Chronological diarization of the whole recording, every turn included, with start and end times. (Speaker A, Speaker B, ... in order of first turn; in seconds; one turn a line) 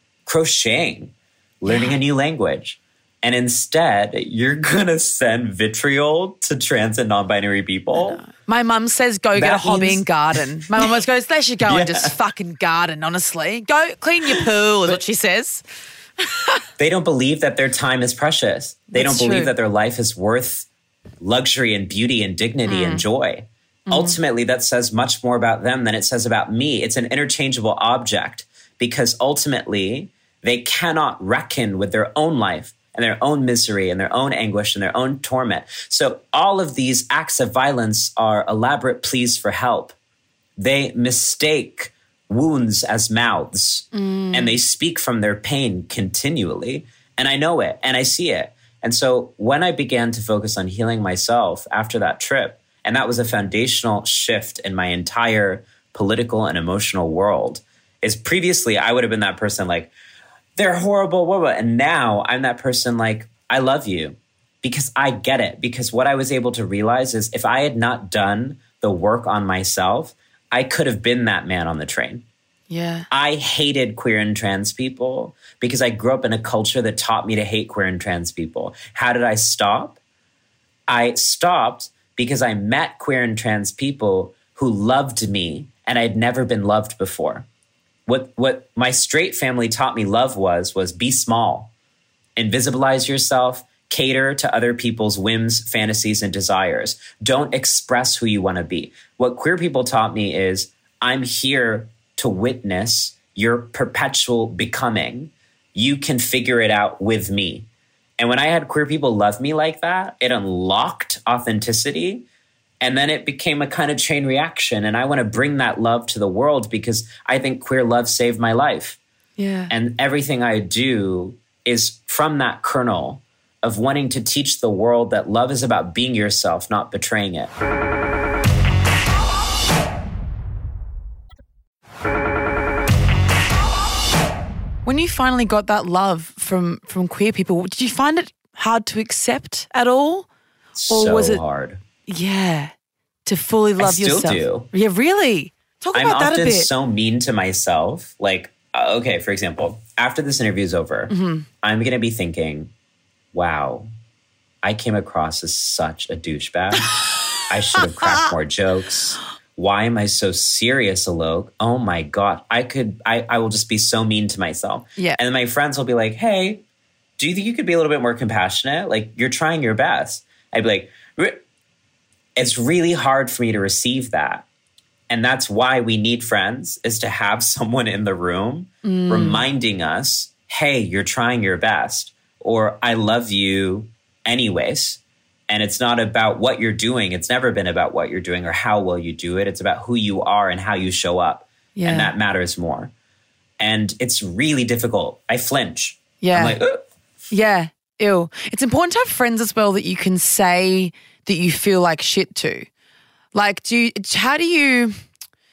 Speaker A: 0.3-8.2
Speaker B: 1.7-2.0
Speaker B: 8.2-15.6
Speaker A: 9.4-10.9
Speaker A: 11.7-12.2
Speaker A: 16.8-20.7
Speaker B: 18.9-19.5
Speaker A: 21.2-40.0
Speaker B: 22.7-23.1
Speaker B: 23.9-24.2
Speaker A: 40.6-59.9
Speaker B: 43.9-44.5
Speaker A: 60.6-72.2
Speaker B: 72.7-73.1
Speaker A: 73.1-80.0
Speaker A: 80.9-87.5
Speaker A: 88.1-91.7
Speaker A: 92.4-107.7
Speaker A: 108.2-112.3
Speaker A: 112.8-119.0
Speaker B: 119.4-119.7
Speaker A: 119.7-127.5
Speaker B: 134.9-140.3
Speaker A: 140.8-141.8
Speaker B: 140.9-141.4
Speaker B: 142.1-142.7
Speaker B: 143.3-146.7
Speaker A: 143.8-144.7
Speaker A: 145.9-152.7
Speaker B: 151.1-151.5
Speaker A: 153.3-153.9
Speaker A: 154.6-166.6
Speaker B: 158.0-158.3
Speaker A: 167.2-171.4
Speaker A: 172.4-174.4
Speaker A: 175.1-192.9
Speaker B: 178.8-179.4
Speaker B: 191.8-192.1
Speaker A: 193.6-196.8
Speaker B: 196.2-196.6
Speaker B: 197.3-202.7
Speaker B: 203.3-205.0